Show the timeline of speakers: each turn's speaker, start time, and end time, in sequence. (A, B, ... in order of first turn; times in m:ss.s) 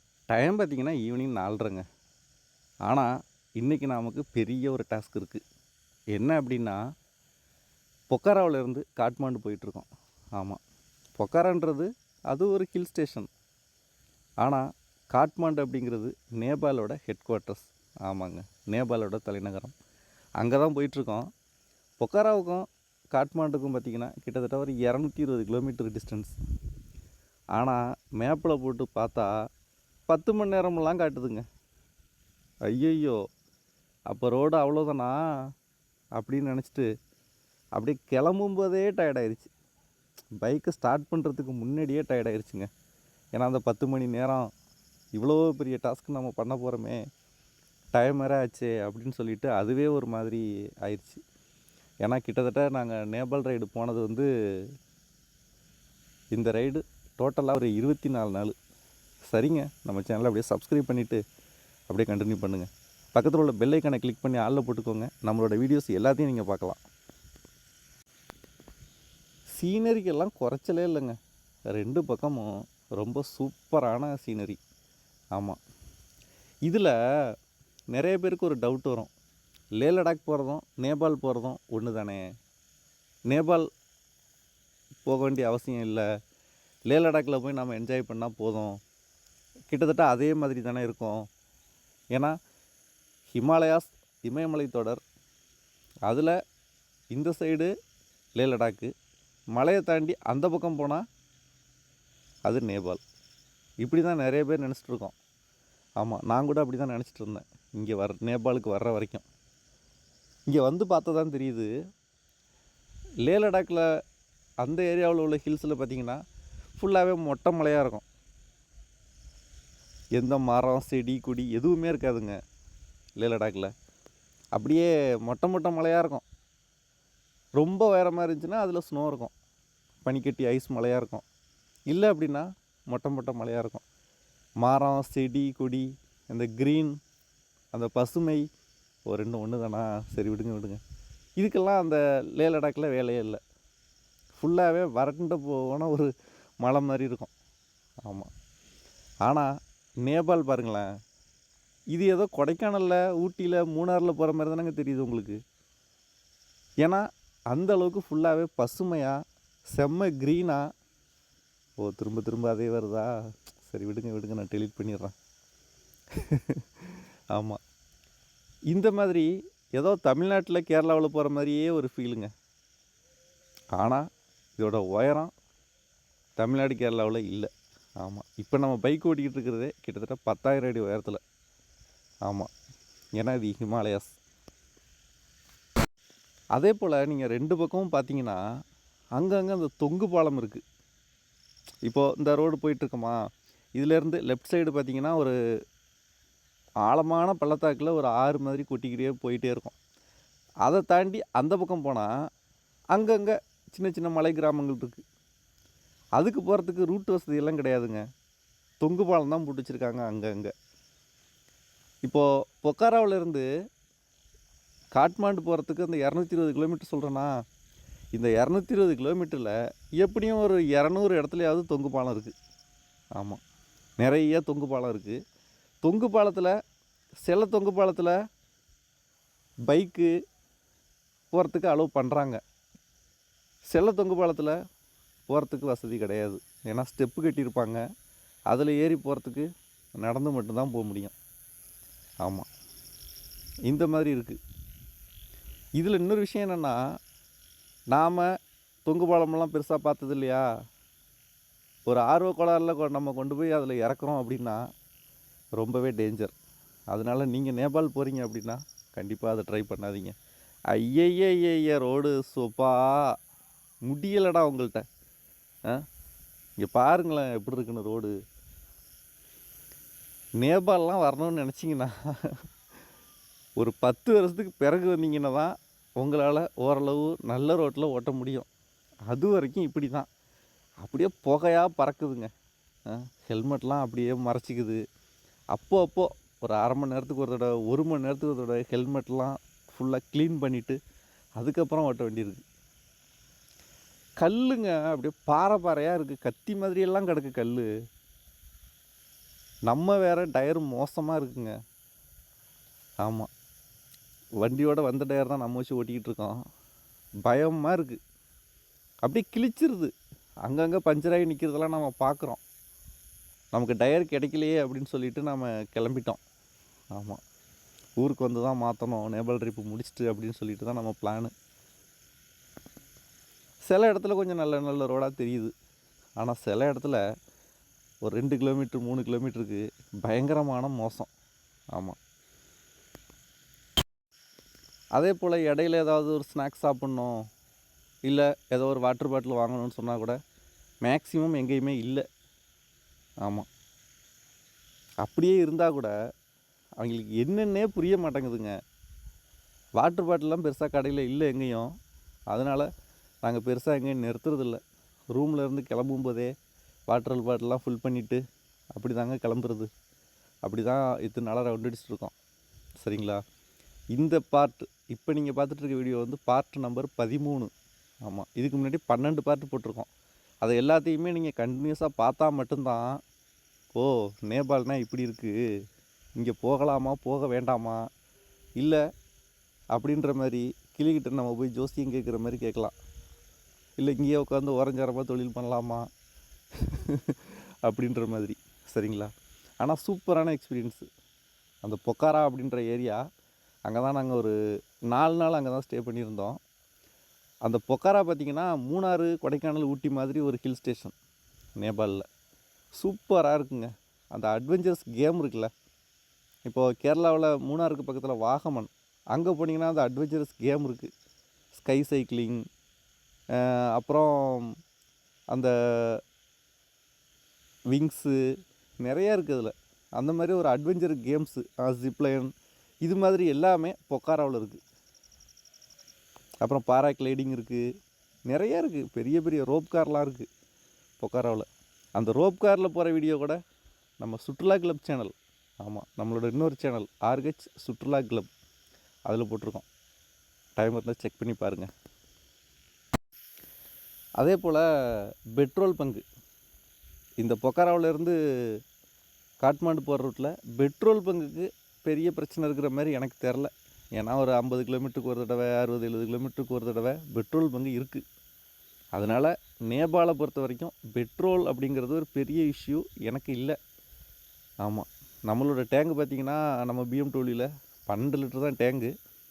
0:00.3-0:01.8 A
0:02.9-0:05.4 A
0:06.1-0:06.8 A
0:08.1-0:10.6 A
0:11.2-0:13.3 A
0:14.4-0:19.7 A
0:20.4-0:21.3 A
0:22.0-0:26.3 A
0:27.5-0:29.3 A
0:30.1-0:31.4 A
0:32.7-0:33.2 A
0:34.1-0:35.2 A
0:36.2-0:36.9 A
0:37.8-0:39.5 A
0:40.4-0:42.7 A
0:43.3-0:44.5 A
0:45.1-0:47.0 A
0:47.9-0:51.2 A
0:52.0-0:54.3 A
0:56.3-0:58.5 A
0:59.3-1:01.2 A
1:01.9-1:06.8 A
1:09.6-1:11.2 A
1:11.7-1:14.6 A
1:16.6-1:16.9 A
1:17.9-1:19.1 A
1:19.8-1:22.2 A
1:23.3-1:23.6 A
1:25.0-1:26.0 A
1:26.9-1:28.7 A
1:29.7-1:31.2 A
1:33.3-1:35.0 A
1:36.1-1:36.3 A
1:37.1-1:37.7 A
1:38.4-1:38.9 A
1:39.5-1:41.0 A
1:42.4-1:43.0 A
1:43.8-1:45.1 A
1:46.0-1:49.2 A
1:50.5-1:51.7 A
1:53.2-1:53.8 A
1:54.6-1:56.2 A
1:56.8-1:58.0 A
2:00.2-2:02.4 A
2:03.2-2:03.7 A
2:04.6-2:06.2 A
2:07.5-2:09.3 A
2:10.0-2:11.2 A
2:11.9-2:13.8 A
2:14.6-2:16.9 A
2:17.7-2:18.4 A
2:19.1-2:20.8 A
2:21.4-2:23.4 A
2:24.4-2:26.1 A
2:26.6-2:27.3 A
2:29.2-2:29.5 A
2:30.0-2:30.9 A
2:31.9-2:35.4 A
2:36.8-2:39.2 A
2:39.7-2:40.6 A
2:41.8-2:43.1 A
2:43.6-2:45.1 A
2:46.2-2:47.6 A
2:48.7-2:52.3 A
2:53.7-2:54.0 A
2:54.6-2:55.3 A
2:56.4-3:01.2 A
3:02.2-3:02.5 A
3:03.2-3:04.2 A
3:06.6-3:08.4 A
3:09.2-3:10.6 A
3:11.8-3:13.2 A
3:13.7-3:15.3 A
3:16.8-3:19.7 A
3:20.6-3:22.1 A
3:22.9-3:25.0 A
3:26.2-3:28.0 A
3:28.8-3:30.5 A
3:32.0-3:33.4 A
3:35.0-3:37.3 A
3:38.1-3:42.3 A
3:44.0-3:45.2 A
3:45.8-3:46.5 A
3:47.2-3:48.2 A
3:49.7-3:50.1 A
3:51.3-3:52.4 A
3:53.7-3:54.6 A
3:55.3-3:57.8 A
3:58.5-3:59.5 A
4:00.0-4:01.1 A
4:03.7-4:04.4 A
4:05.8-4:06.8 A
4:07.9-4:08.3 A
4:08.8-4:10.4 A
4:11.9-4:14.6 A
4:15.6-4:16.3 A
4:16.9-4:20.1 A
4:20.7-4:23.2 A
4:23.8-4:24.8 A
4:26.6-4:28.1 A
4:30.4-4:32.4 A
4:33.6-4:38.5 A
4:39.1-4:40.0 A
4:40.8-4:42.3 A
4:42.9-4:44.8 A
4:45.5-4:50.8 A
4:51.4-4:52.4 A
4:54.2-4:57.7 A
4:59.7-5:01.5 A
5:03.0-5:03.3 A
5:04.4-5:06.4 A
5:07.2-5:08.0 A
5:09.0-5:09.9 A
5:10.4-5:12.4 A
5:13.5-5:16.2 A
5:18.0-5:21.3 A
5:23.6-5:25.5 A
5:26.2-5:27.0 A
5:28.0-5:31.1 A
5:35.0-5:37.2 A
5:38.0-5:40.2 A
5:40.8-5:42.0 A
5:45.0-5:45.9 A
5:46.8-5:48.5 A
5:49.8-5:51.7 A
5:52.3-5:52.7 A
5:53.2-5:54.6 A
5:55.1-5:56.3 A
5:56.9-5:58.2 A
5:58.7-5:59.7 A
6:00.4-6:02.1 A
6:02.8-6:03.2 A
6:03.9-6:07.5 A
6:08.0-6:09.9 A
6:10.4-6:13.0 A
6:13.7-6:15.4 A
6:16.2-6:17.8 A
6:19.7-6:22.7 A
6:23.8-6:25.8 A
6:26.6-6:29.1 A
6:29.6-6:30.8 A
6:31.6-6:33.0 A
6:33.7-6:34.3 A
6:34.9-6:36.4 A
6:37.4-6:40.9 A
6:41.6-6:42.0 A
6:42.8-6:45.5 A
6:46.4-6:50.9 A
6:51.5-6:52.4 A
6:53.4-6:54.5 A
6:55.3-6:56.0 A
6:57.7-6:58.2 A
6:58.8-7:02.3 A
7:02.8-7:04.6 A
7:06.4-7:07.6 A
7:08.3-7:10.2 A
7:11.0-7:13.4 A
7:14.0-7:18.3 A
7:19.0-7:19.6 A
7:20.6-7:21.7 A
7:24.2-7:26.0 A
7:27.2-7:28.6 A
7:29.4-7:38.0 A
7:39.0-7:43.6 A
7:44.6-7:48.9 A